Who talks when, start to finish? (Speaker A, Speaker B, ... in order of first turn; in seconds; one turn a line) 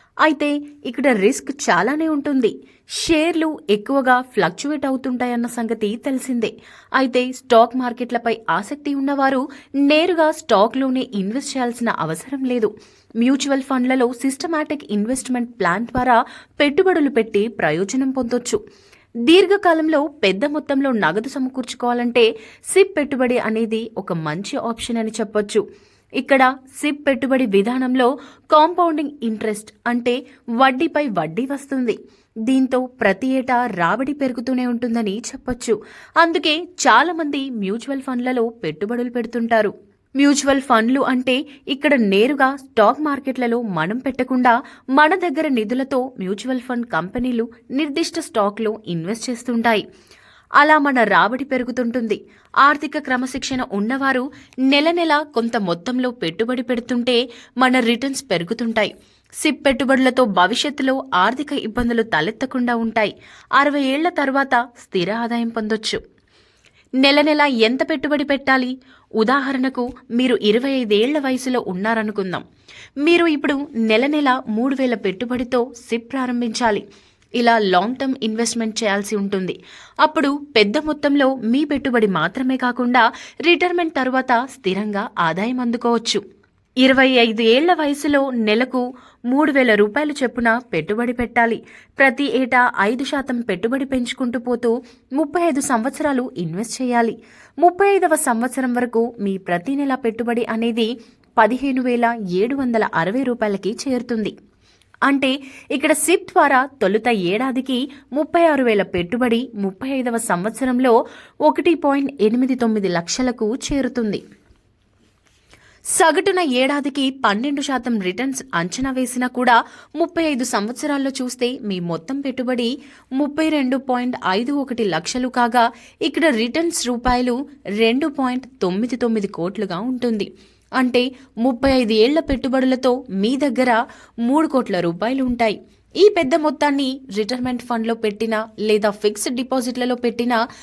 Speaker A: 0.2-12.7
Speaker A: 13.2-18.6
Speaker A: 19.2-25.6
Speaker A: 26.2-49.8
Speaker A: 50.6-66.0
Speaker A: 67.0-72.4
Speaker A: 73.0-76.8
Speaker A: 77.4-86.2
Speaker A: 86.8-104.3
Speaker A: 105.1-110.9
Speaker A: 111.5-114.2
Speaker A: 116.0-140.4